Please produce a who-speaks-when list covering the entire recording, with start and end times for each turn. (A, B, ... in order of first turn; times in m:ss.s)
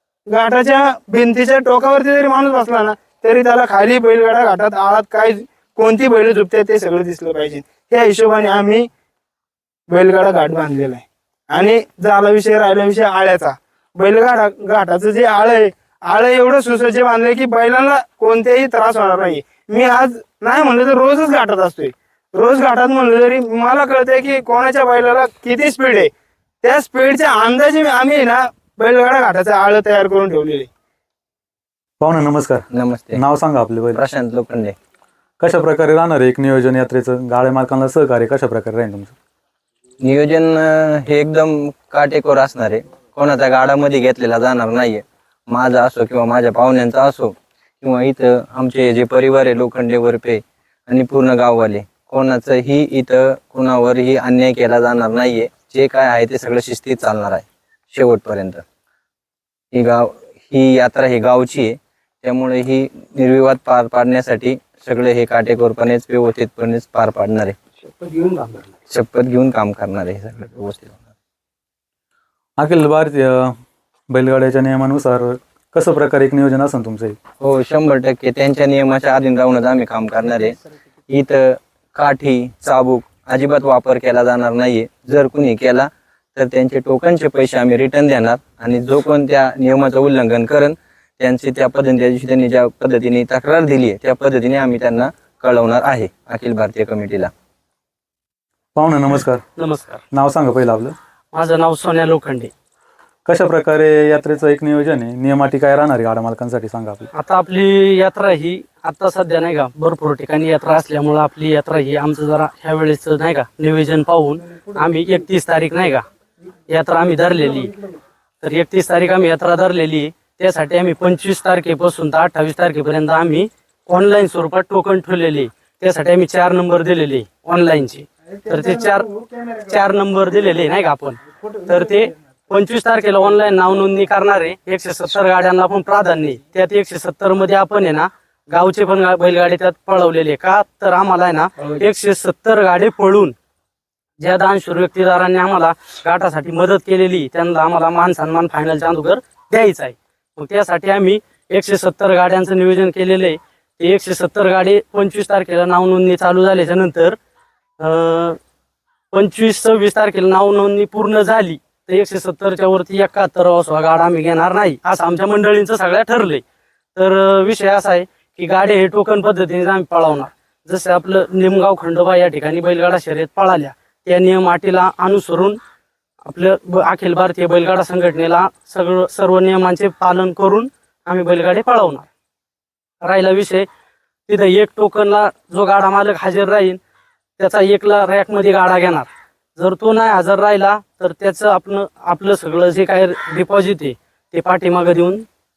0:00.3-0:08.9 A
0:09.9-0:26.1 A
0:26.6-0:30.7 A
0:32.0-0:34.0 B
0:32.7-0:33.2 C
0:34.0-0:34.8 C
0:35.4-0:39.2 B
0:40.0-0:58.6 C
0:59.7-1:07.6 C
1:08.9-1:11.0 C
1:12.6-1:13.6 B
1:14.1-1:17.2 B
1:17.4-1:20.6 C
1:21.1-1:37.3 C
1:38.8-1:39.4 B
1:39.6-1:40.0 D
1:40.1-1:41.0 B
1:41.3-1:42.5 D
1:43.3-1:47.1 B
1:47.1-1:56.0 D
1:56.7-1:57.7 D
1:58.4-2:09.1 D
2:08.9-2:09.4 A
2:09.7-2:23.3 D
2:24.2-2:37.2 D
2:37.8-2:38.4 D
2:39.1-2:46.4 D
2:47.0-2:55.6 D
2:56.2-3:02.1 D
3:03.0-3:03.7 D
3:04.3-3:06.8 D
3:07.4-3:15.3 D